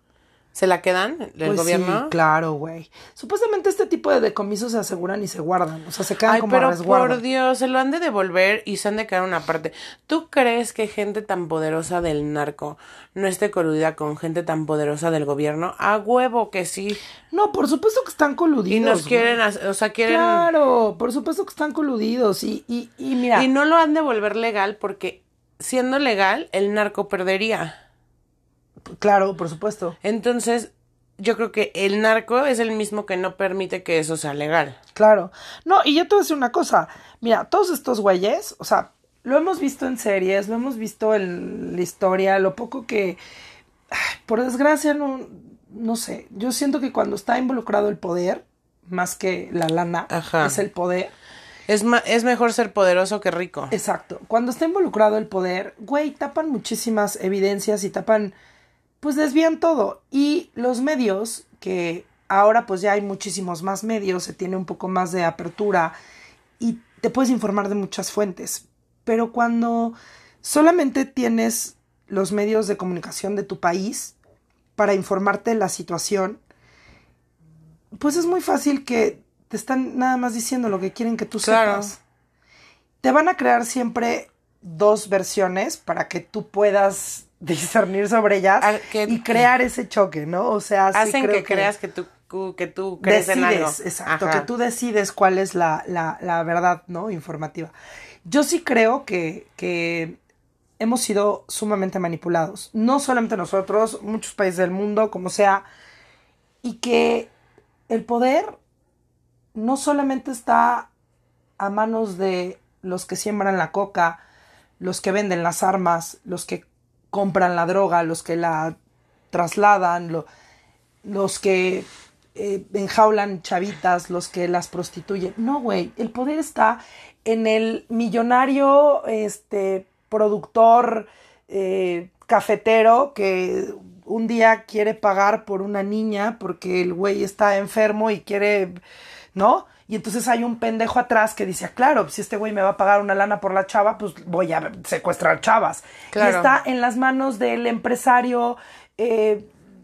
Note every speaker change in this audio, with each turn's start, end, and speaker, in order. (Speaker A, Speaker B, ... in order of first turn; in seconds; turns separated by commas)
Speaker A: 0.6-2.1, Speaker B: 1.4-7.2, Speaker A: 6.3-17.0, Speaker B: 17.3-19.4, Speaker A: 18.7-20.5, Speaker B: 20.1-23.5, Speaker A: 23.3-27.8, Speaker B: 29.0-30.0, Speaker A: 30.0-34.8, Speaker B: 35.0-43.2, Speaker B: 43.9-51.1, Speaker A: 50.1-50.6, Speaker A: 51.7-53.7, Speaker B: 53.7-58.4, Speaker B: 59.0-66.0, Speaker B: 66.6-74.2, Speaker B: 74.8-76.4, Speaker B: 78.0-82.0, Speaker A: 81.4-81.9, Speaker B: 83.0-91.7, Speaker A: 88.6-89.5, Speaker A: 90.9-94.5, Speaker B: 93.0-97.7, Speaker B: 98.3-100.2, Speaker B: 100.8-105.7, Speaker B: 106.6-107.3, Speaker B: 107.9-108.6, Speaker B: 109.5-110.9, Speaker B: 111.6-114.2, Speaker B: 114.8-118.8, Speaker B: 119.3-120.3, Speaker B: 121.0-138.8, Speaker B: 139.3-149.5, Speaker A: 146.1-146.5